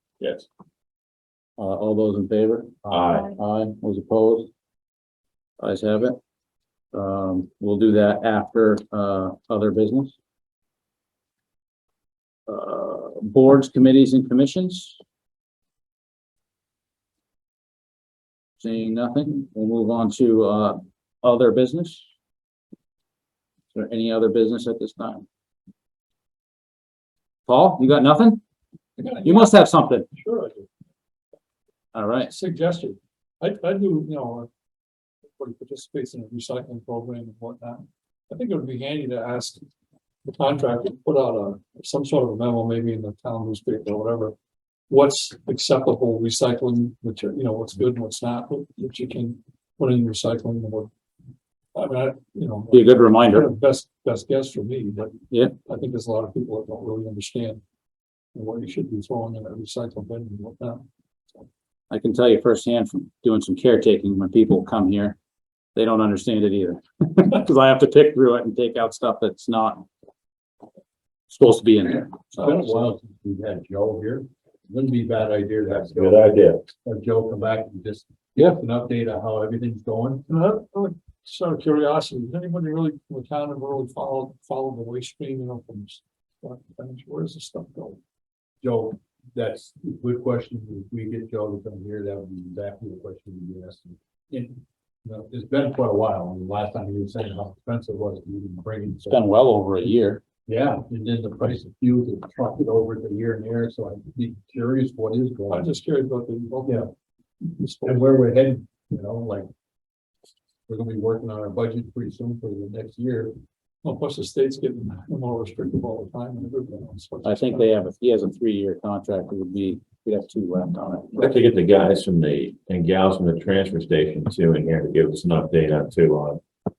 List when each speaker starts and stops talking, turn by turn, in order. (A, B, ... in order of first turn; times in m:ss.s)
0:00.2-0:00.5 A
0:01.6-0:04.5 B
0:02.9-0:03.3 A
0:05.6-0:06.2 B
0:06.9-0:10.2 B
0:12.5-0:15.0 B
0:18.6-0:22.0 B
0:23.7-0:25.2 B
0:27.5-0:28.4 B
0:29.0-0:30.7 C
0:29.2-0:30.1 B
0:31.9-0:32.3 B
0:32.3-0:34.5 C
0:35.3-0:39.6 C
0:40.2-0:44.4 C
0:44.9-0:50.9 C
0:51.8-0:57.6 C
0:52.7-0:53.5 B
0:58.3-1:00.8 C
1:01.9-1:05.2 B
1:05.8-1:09.9 B
1:11.3-1:12.5 B
1:12.4-1:20.2 D
1:12.4-1:12.8 C
1:15.7-1:16.6 A
1:20.3-1:28.0 C
1:28.6-1:39.2 D
1:39.1-1:40.2 B
1:40.5-1:45.7 D
1:45.5-1:46.9 C
1:46.6-1:46.9 D
1:47.6-1:48.2 C
1:47.8-1:49.5 D
1:50.7-1:53.4 D
1:53.8-1:57.7 C
1:57.2-2:01.2 B
2:01.2-2:06.4 A